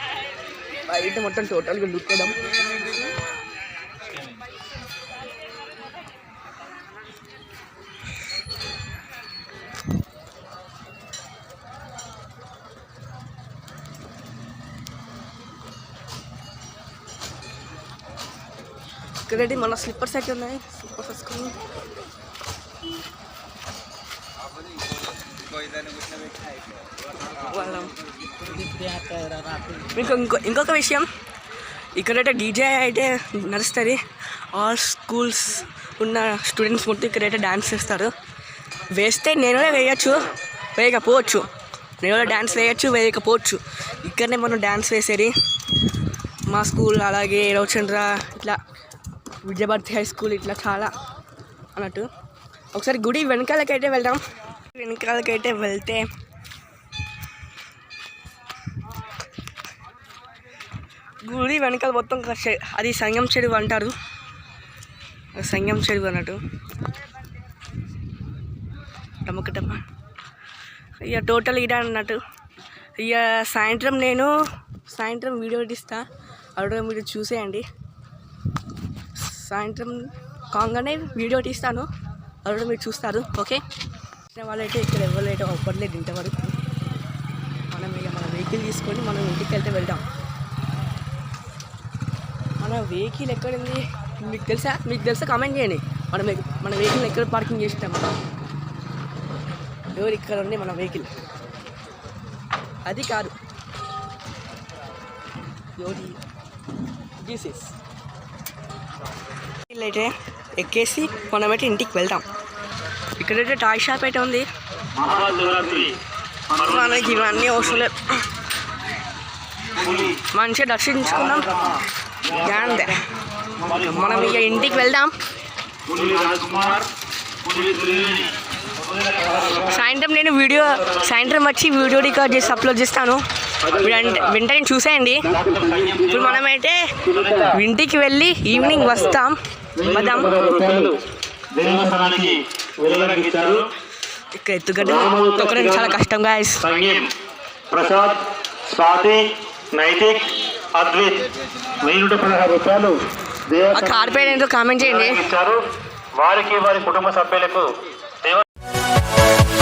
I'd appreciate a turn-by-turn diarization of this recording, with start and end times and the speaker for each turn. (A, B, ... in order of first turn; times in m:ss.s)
0:00.9-0:02.6 A
0:19.3-0:21.6 A
0:27.5-0:27.9 A
0:29.9-0:31.1 A
0:32.0-0:34.0 A
0:34.5-0:38.1 A
0:38.9-0:40.2 A
0:40.8-0:41.5 A
0:42.0-0:45.3 A
0:46.5-0:48.6 A
0:49.4-0:50.9 A
0:51.7-0:52.0 A
0:52.7-0:56.1 A
1:01.2-1:03.9 A
1:05.3-1:06.4 A
1:09.2-1:09.8 A
1:11.0-1:12.2 A
1:13.0-1:14.3 A
1:14.9-1:16.0 A
1:16.6-1:17.6 A
1:19.2-1:21.9 A
1:22.4-1:23.6 A
1:24.3-1:26.6 A
1:27.7-1:30.0 A
1:32.6-1:38.2 A
1:40.0-1:41.1 A
1:42.8-1:43.3 A
1:45.8-1:46.2 A
1:47.2-1:47.7 A
1:49.7-1:52.2 A
1:53.2-1:54.4 A
1:55.0-1:55.9 B
1:56.5-1:58.2 A
1:59.8-2:00.1 B
2:00.1-2:03.0 A
2:03.6-2:05.1 A
2:05.9-2:06.9 B
2:07.4-2:08.3 B
2:09.4-2:20.4 A
2:19.8-2:21.0 B
2:21.5-2:23.7 B
2:24.3-2:26.6 A
2:25.0-2:25.7 B
2:26.6-2:27.1 B
2:27.7-2:34.0 B
2:33.7-2:35.2 A
2:35.0-2:35.6 B
2:36.2-2:37.7 B